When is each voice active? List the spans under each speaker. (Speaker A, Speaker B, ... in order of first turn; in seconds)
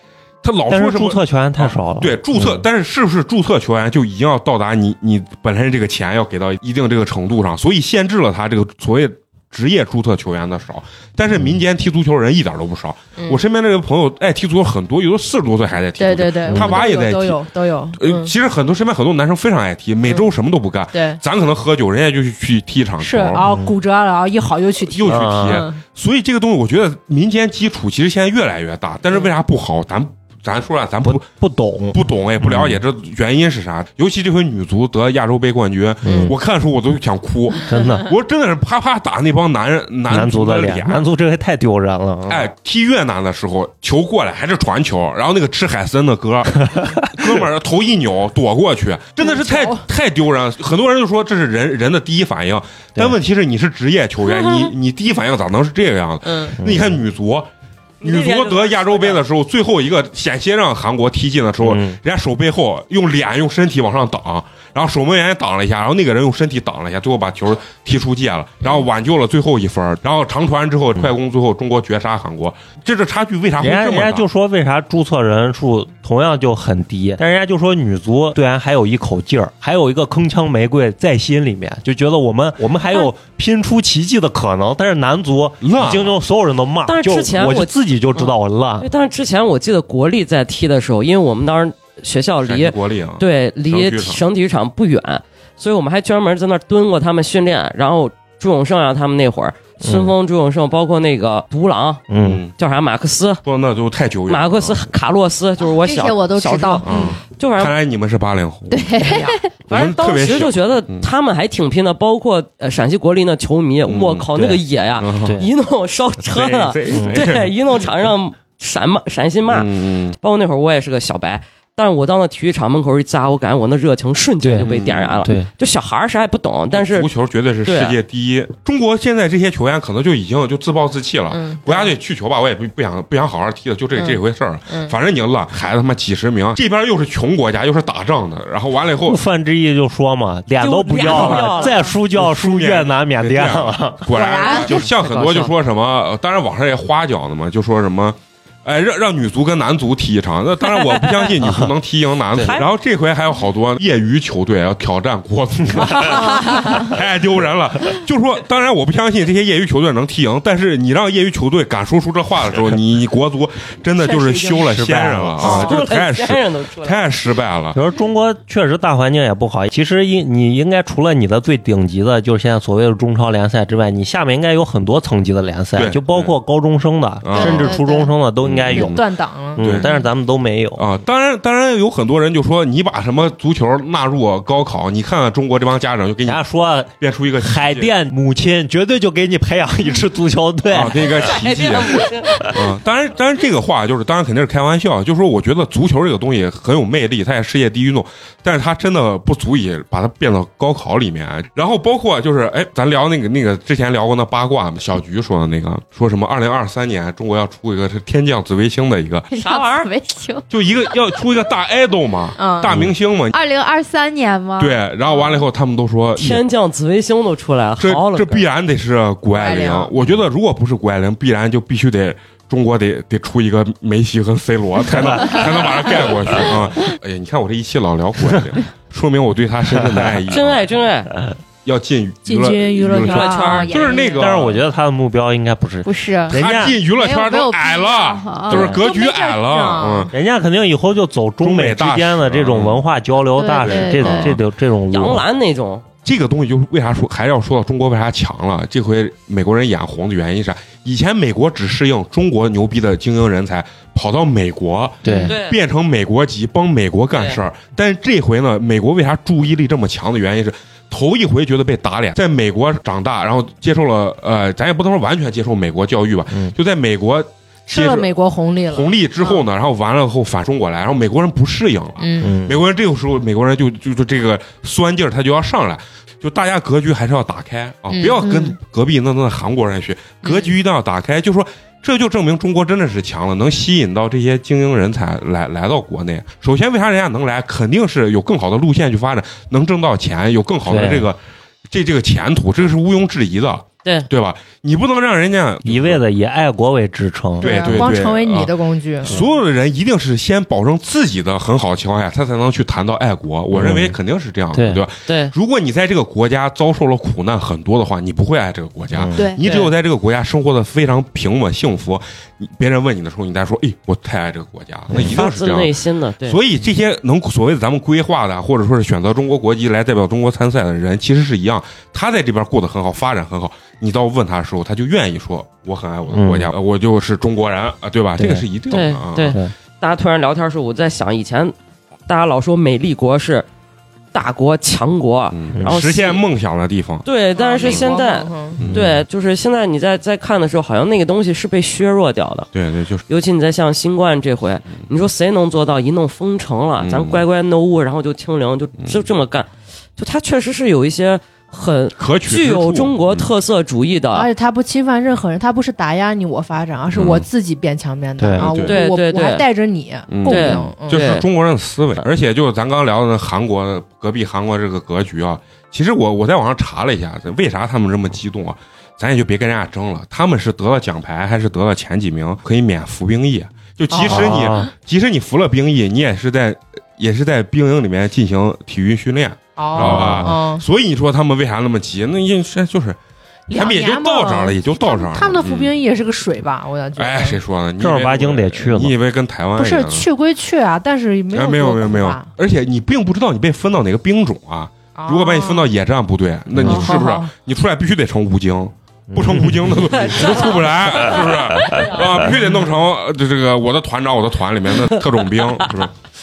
Speaker A: 0.4-17.4, 17.9-23.4, 24.8-31.2, 31.9-41.0, 42.3-57.5, 58.0-74.2, 85.6-86.1, 92.4-94.2, 102.2-102.5, 103.4-104.9, 106.8-109.2, 109.7-111.1, 113.8-114.3, 115.0-115.4, 116.2-117.5, 119.5-120.2, 124.6-125.3, 126.7-139.2, 141.1-141.5, 142.1-167.8, 175.8-176.3, 177.2-177.8, 178.4-179.0, 179.6-179.9, 180.8-186.4, 187.0-187.9, 190.7-209.3, 210.5-213.4, 214.6-216.4, 217.8-230.7, 231.6-234.6, 236.3-240.1, 241.4-242.8, 243.5-244.4, 246.0-268.1, 268.7-296.0, 297.4-329.4, 335.3-337.1, 338.6-339.0, 342.5-343.0, 346.8-347.2, 352.0-353.3, 356.9-357.3, 358.3-358.8, 360.1-383.0, 383.5-385.7, 386.9-390.1, 391.3-405.9
Speaker B: 0.7-2.6, 16.5-16.8, 23.4-23.7, 25.1-25.6, 31.0-32.8, 36.0-36.3, 37.6-38.1, 40.1-42.5, 46.7-47.0, 56.6-57.0, 61.6-62.0, 73.6-88.9, 99.8-100.1, 102.1-102.4, 114.3-114.6, 115.2-115.5, 116.9-117.2, 124.4-124.7, 139.0-144.9, 151.4-151.7, 164.5-165.7, 167.7-179.0, 179.6-180.8, 186.2-191.4, 225.1-225.4, 229.7-230.1, 234.2-236.8, 238.5-238.8, 240.1-245.2, 255.0-255.3, 272.2-272.6, 290.6-291.1, 295.6-297.9, 303.5-304.0, 304.5-304.8, 308.9-309.3, 314.9-315.1, 326.1-326.5, 328.2-328.4, 335.5-335.8, 358.2-358.5, 374.0-374.7, 379.7-380.4, 387.8-388.9, 396.5-397.0, 399.1-399.9
Speaker C: 16.0-18.3, 20.9-21.2, 23.0-25.8, 49.2-49.8, 131.3-131.9, 133.9-134.9, 144.1-144.7, 156.0-156.8, 164.0-164.7, 178.7-179.6, 212.4-212.8, 219.3-219.9, 232.2-234.3, 238.7-240.1, 267.7-269.4, 272.0-272.4, 277.9-278.2, 280.2-280.5, 297.4-299.2, 337.3-338.6, 354.1-361.1, 373.9-374.5, 379.6-380.6, 383.5-387.4, 389.6-392.3, 394.9-395.7, 396.6-397.3
Speaker D: 58.0-59.2, 86.9-102.0, 102.6-103.4, 104.3-107.7, 109.0-127.1, 127.7-128.0, 140.6-141.9, 144.4-145.5, 150.8-151.2, 152.3-152.7, 165.4-167.1, 191.2-192.5, 209.3-209.9, 216.2-218.4, 230.3-231.1, 233.0-233.9, 244.9-245.8, 255.2-255.6, 257.1-257.4, 305.1-305.3, 309.4-309.7, 315.0-316.4, 328.7-331.5, 332.1-333.4, 334.1-336.2, 337.0-342.5, 343.1-354.3, 358.6-359.4, 360.3-361.2, 400.0-401.2
Speaker E: 105.6-107.1, 108.7-109.5, 177.3-178.1, 209.3-210.4, 213.3-214.8, 235.8-238.8, 243.3-244.4, 278.2-278.6, 309.1-309.4